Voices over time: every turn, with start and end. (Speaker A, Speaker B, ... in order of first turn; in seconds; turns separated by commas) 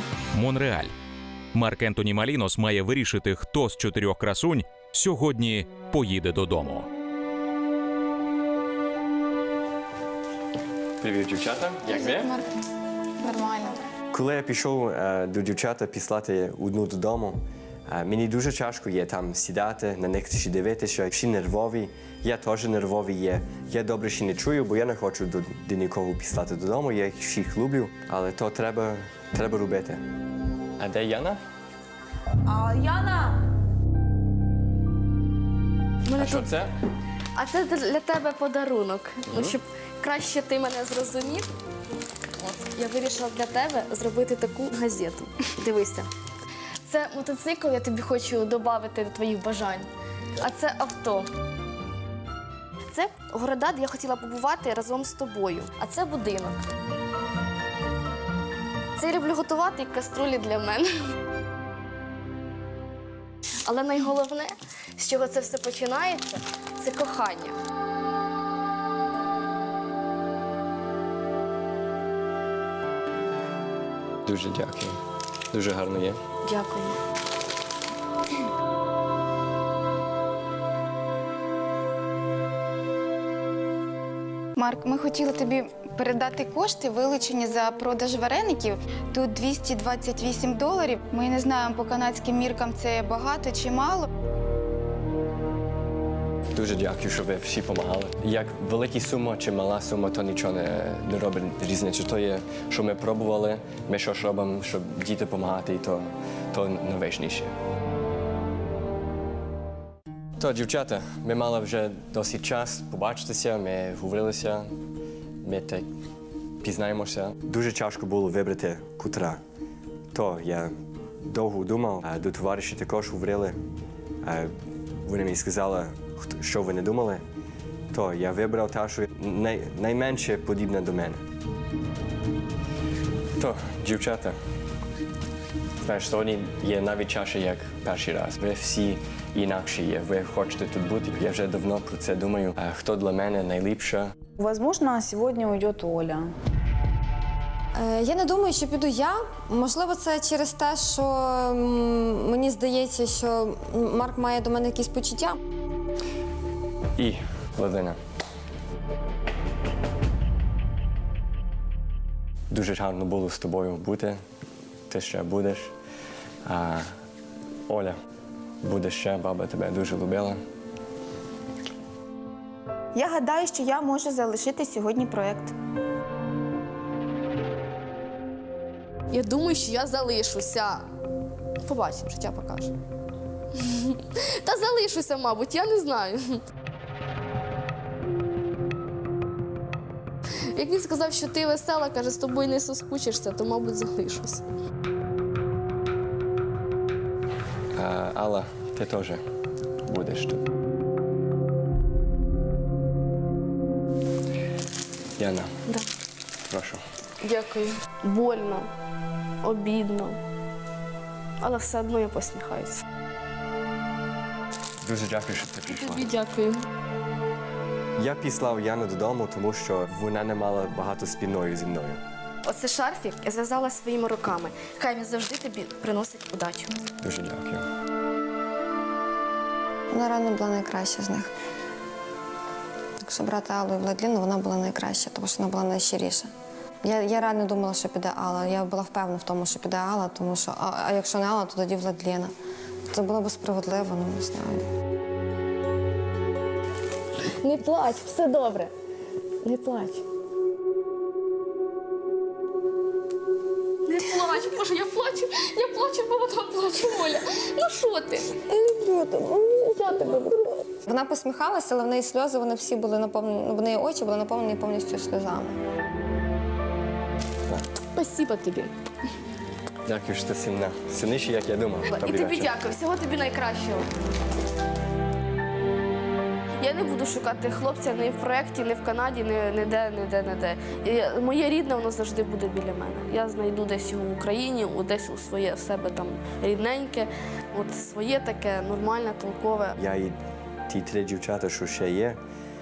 Speaker A: 0.3-0.9, Speaker A: 1.5-6.9, Speaker B: 11.0-12.3, Speaker C: 11.9-12.4, Speaker C: 13.2-13.8, Speaker B: 14.1-30.0, Speaker B: 30.8-31.4, Speaker D: 36.0-36.5, Speaker B: 36.2-36.7, Speaker D: 37.3-41.5, Speaker D: 42.4-46.1, Speaker D: 46.8-51.3, Speaker D: 52.9-56.6, Speaker D: 59.0-60.9, Speaker D: 63.6-67.6, Speaker B: 74.2-75.0, Speaker B: 75.5-76.2, Speaker D: 76.4-77.0, Speaker C: 84.5-94.1, Speaker B: 96.5-107.5, Speaker B: 110.4-114.7, Speaker B: 115.4-115.9, Speaker B: 116.6-119.4, Speaker B: 120.1-123.6, Speaker B: 124.2-124.5, Speaker B: 125.0-127.2, Speaker B: 127.9-131.2, Speaker B: 133.4-134.3, Speaker B: 135.8-144.1, Speaker E: 144.4-146.3, Speaker F: 147.7-155.4, Speaker B: 157.0-158.0, Speaker B: 162.5-164.2, Speaker B: 164.9-165.7, Speaker B: 166.4-166.9, Speaker B: 167.7-168.0, Speaker B: 168.6-170.4, Speaker C: 172.9-175.5, Speaker D: 179.1-180.8, Speaker D: 181.6-182.7, Speaker D: 183.6-186.4, Speaker D: 190.5-194.4, Speaker B: 197.7-199.2, Speaker B: 199.8-200.4, Speaker B: 205.2-205.5, Speaker B: 206.5-206.8, Speaker D: 207.2-208.7, Speaker D: 209.4-210.2, Speaker D: 211.4-212.8, Speaker B: 214.8-216.1, Speaker D: 215.7-216.6, Speaker B: 218.0-222.0, Speaker D: 222.4-226.8, Speaker B: 227.0-227.6, Speaker F: 229.9-231.3, Speaker F: 233.0-236.3, Speaker F: 236.8-242.3, Speaker F: 242.9-244.7, Speaker D: 247.4-248.7, Speaker D: 249.4-250.0, Speaker D: 253.8-258.4, Speaker F: 258.6-259.6, Speaker D: 259.0-260.5, Speaker F: 260.9-265.6, Speaker D: 267.9-268.7, Speaker B: 269.8-272.5, Speaker D: 271.9-273.9, Speaker D: 276.6-289.8, Speaker B: 289.8-290.1, Speaker B: 290.7-292.2